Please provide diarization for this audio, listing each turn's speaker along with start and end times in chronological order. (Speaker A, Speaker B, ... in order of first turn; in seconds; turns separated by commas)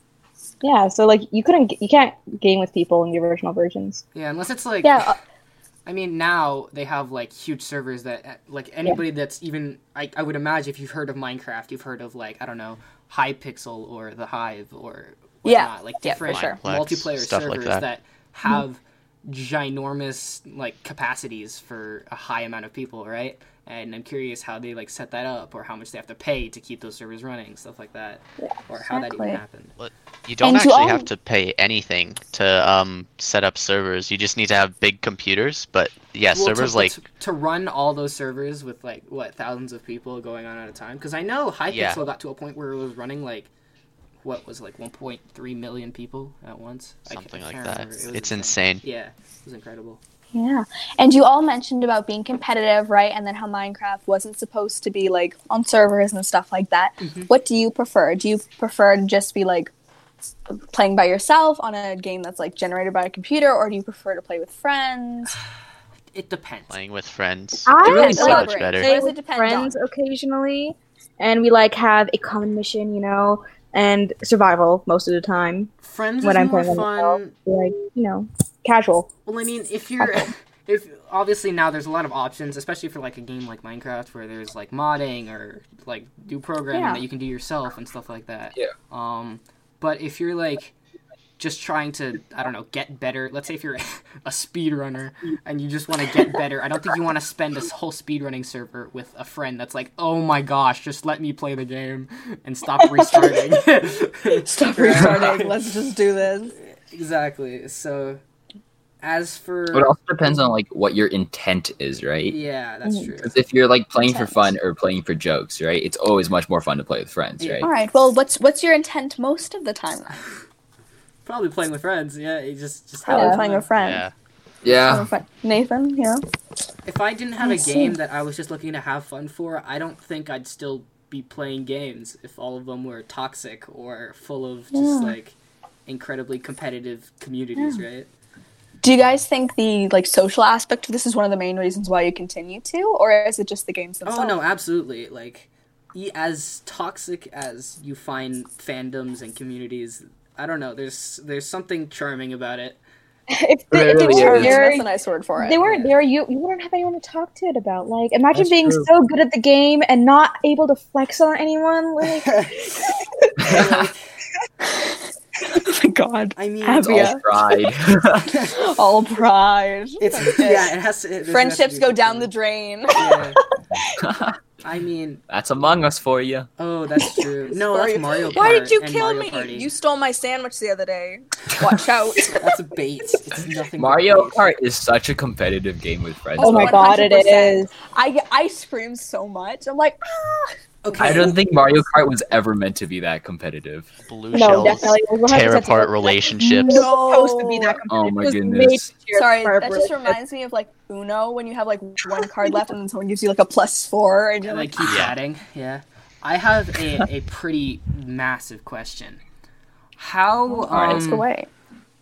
Speaker A: 0.6-4.0, Speaker B: 4.1-5.2, Speaker C: 4.8-5.2, Speaker B: 5.9-29.7, Speaker C: 15.4-16.6, Speaker D: 16.3-17.9, Speaker C: 28.9-29.4, Speaker D: 29.8-37.0, Speaker C: 30.4-31.1, Speaker B: 36.3-43.5, Speaker D: 41.7-42.0, Speaker B: 44.2-50.0, Speaker D: 47.1-48.8, Speaker C: 50.3-59.7, Speaker B: 57.0-57.3, Speaker C: 60.7-65.4, Speaker B: 66.1-66.8, Speaker D: 66.7-68.9, Speaker A: 67.7-79.1, Speaker C: 67.8-69.8, Speaker E: 67.8-68.4, Speaker B: 75.8-77.3, Speaker B: 79.3-90.8, Speaker C: 86.7-87.0, Speaker B: 91.4-105.6, Speaker C: 103.0-103.5, Speaker C: 104.3-106.5, Speaker E: 105.0-105.2, Speaker B: 106.6-108.2, Speaker B: 109.0-109.9, Speaker E: 109.7-112.4, Speaker B: 112.3-113.3, Speaker E: 113.2-117.7, Speaker C: 114.0-114.5, Speaker B: 117.4-117.7, Speaker C: 117.6-120.2, Speaker B: 121.2-123.7, Speaker C: 123.0-124.0, Speaker A: 123.1-123.4, Speaker D: 123.8-124.1, Speaker E: 124.6-125.1, Speaker C: 124.8-126.2, Speaker B: 126.9-138.1, Speaker C: 127.4-128.0, Speaker C: 134.7-135.2, Speaker C: 137.6-137.8, Speaker C: 138.8-144.4, Speaker B: 144.1-152.8, Speaker A: 153.3-162.3, Speaker E: 153.7-154.6, Speaker C: 153.9-155.6, Speaker B: 155.6-155.9, Speaker E: 158.3-158.9, Speaker B: 162.1-162.7, Speaker E: 163.4-163.7, Speaker B: 163.4-164.1, Speaker C: 164.6-167.2, Speaker B: 166.4-167.2, Speaker E: 166.8-168.3, Speaker B: 168.3-168.6, Speaker C: 168.4-170.7, Speaker B: 170.0-172.3, Speaker C: 171.3-174.0, Speaker B: 172.9-173.4, Speaker E: 174.0-174.4, Speaker B: 174.6-175.2, Speaker E: 175.3-176.5, Speaker B: 176.6-179.7, Speaker C: 177.0-182.6, Speaker B: 182.4-184.5, Speaker E: 183.8-186.8, Speaker C: 186.4-191.2, Speaker A: 186.4-187.7, Speaker B: 190.8-191.3, Speaker E: 191.0-193.9, Speaker D: 194.1-196.8, Speaker A: 194.3-200.2, Speaker C: 196.5-197.8, Speaker E: 197.9-198.9, Speaker C: 199.1-205.0, Speaker B: 204.4-209.2, Speaker D: 204.8-205.1, Speaker B: 210.0-211.3, Speaker C: 210.5-211.5, Speaker E: 210.7-211.0